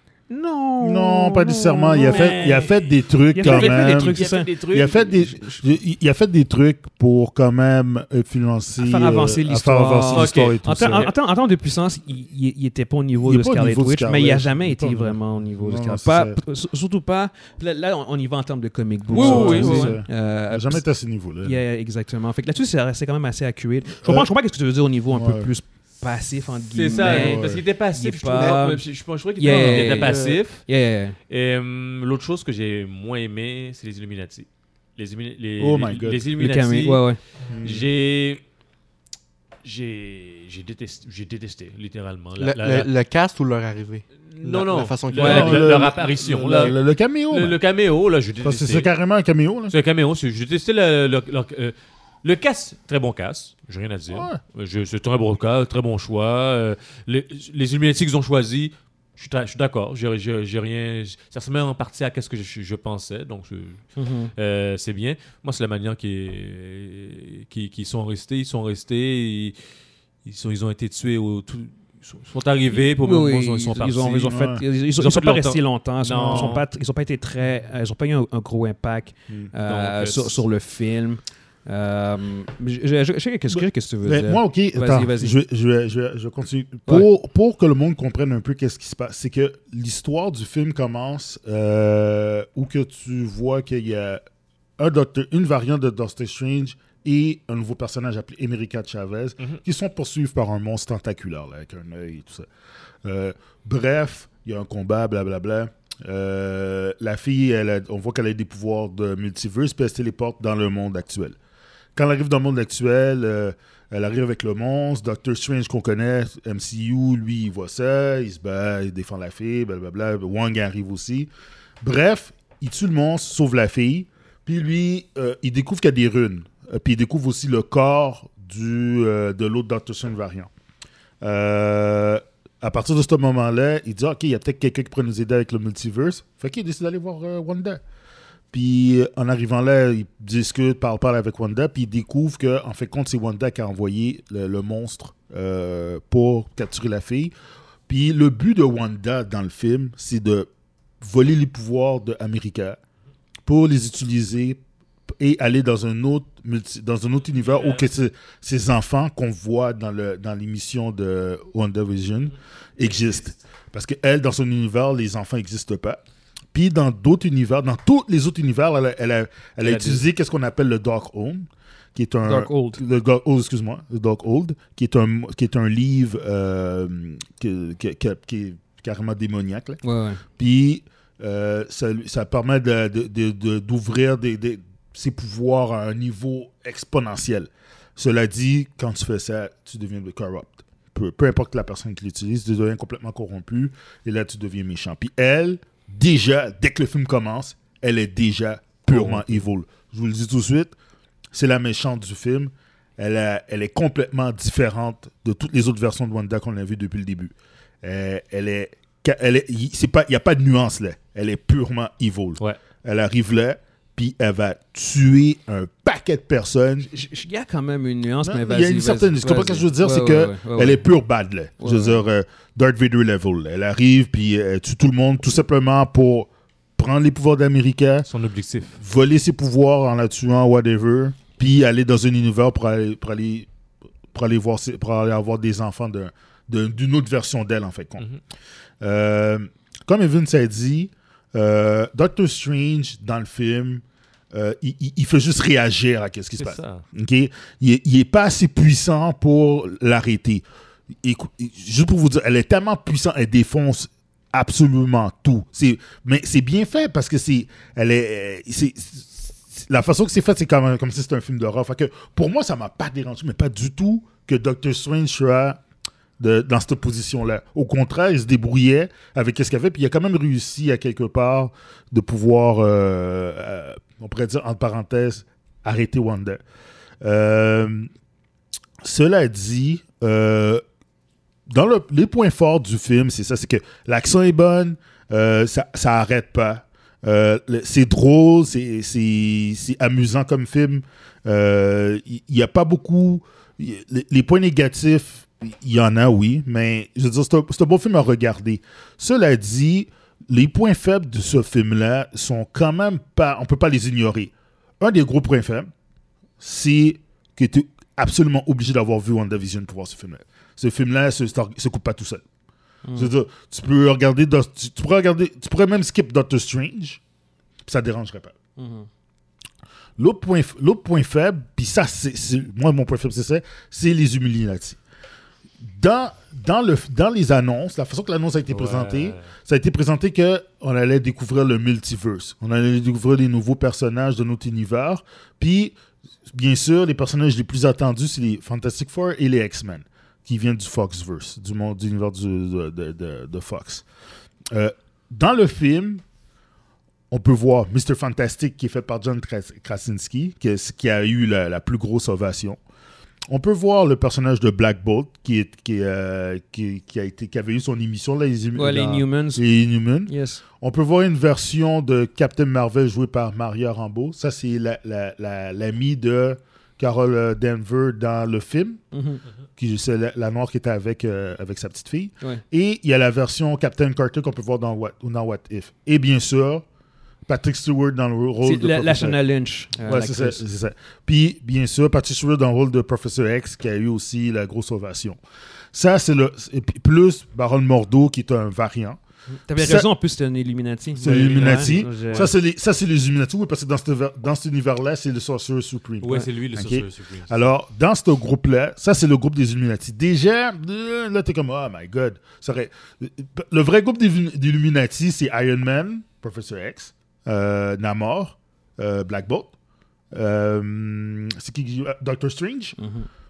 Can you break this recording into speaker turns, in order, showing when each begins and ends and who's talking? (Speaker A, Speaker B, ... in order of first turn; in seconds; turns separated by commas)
Speaker A: 0.3-2.7, Speaker B: 0.8-11.1, Speaker C: 2.0-5.6, Speaker A: 3.3-4.5, Speaker A: 8.8-20.8, Speaker C: 10.1-11.1, Speaker B: 13.2-16.4, Speaker B: 19.1-21.6, Speaker C: 19.1-20.0, Speaker A: 21.4-31.2, Speaker B: 24.0-24.3, Speaker B: 25.1-25.5, Speaker C: 26.7-30.7, Speaker B: 27.0-27.6, Speaker D: 28.3-28.8, Speaker D: 29.5-30.4, Speaker C: 31.3-38.4, Speaker B: 35.6-36.2, Speaker A: 36.4-37.2, Speaker B: 37.5-37.9, Speaker C: 39.6-42.9, Speaker D: 42.4-46.0, Speaker C: 44.2-48.9, Speaker B: 45.2-47.6, Speaker A: 45.2-45.5, Speaker B: 48.4-49.7, Speaker C: 49.7-76.6, Speaker B: 54.1-54.4, Speaker A: 64.0-64.3, Speaker A: 72.7-85.4, Speaker B: 74.3-74.6, Speaker B: 76.3-76.6, Speaker C: 79.7-80.4, Speaker B: 83.5-94.2, Speaker B: 94.8-102.5, Speaker B: 103.0-111.4, Speaker B: 112.0-121.3, Speaker B: 121.8-130.5, Speaker B: 131.2-137.8, Speaker B: 138.5-147.3, Speaker B: 147.9-150.5, Speaker B: 151.0-152.8, Speaker B: 153.4-154.6, Speaker B: 155.2-166.0, Speaker C: 157.5-157.8, Speaker B: 166.5-179.8, Speaker C: 169.6-170.0, Speaker A: 172.2-172.8, Speaker A: 179.8-180.2, Speaker B: 180.4-200.7, Speaker A: 198.9-199.4, Speaker B: 201.3-216.9, Speaker A: 216.9-220.8, Speaker B: 218.2-228.1, Speaker A: 221.6-222.0, Speaker C: 228.1-228.8, Speaker B: 228.8-233.5, Speaker B: 234.1-238.1, Speaker B: 238.8-250.4, Speaker C: 246.4-246.8, Speaker B: 251.0-265.6, Speaker B: 266.2-276.4, Speaker B: 277.0-277.9, Speaker B: 278.8-280.6, Speaker B: 281.5-305.7, Speaker B: 306.4-312.2, Speaker A: 312.8-313.1, Speaker B: 312.9-317.0, Speaker B: 317.6-318.4, Speaker A: 318.6-318.9, Speaker B: 320.0-324.8, Speaker B: 325.6-335.7, Speaker C: 328.5-329.3, Speaker B: 336.3-343.8, Speaker B: 344.5-346.0, Speaker B: 347.1-352.6, Speaker B: 353.3-368.8, Speaker A: 358.6-359.4, Speaker A: 360.1-360.4, Speaker A: 368.9-369.2, Speaker B: 369.6-376.6, Speaker B: 377.3-379.2, Speaker A: 378.4-380.4, Speaker B: 379.8-385.2, Speaker B: 385.7-389.0, Speaker A: 389.5-392.3, Speaker B: 389.6-389.9, Speaker B: 391.0-409.5, Speaker C: 396.0-397.5, Speaker B: 410.1-412.8, Speaker A: 412.8-413.1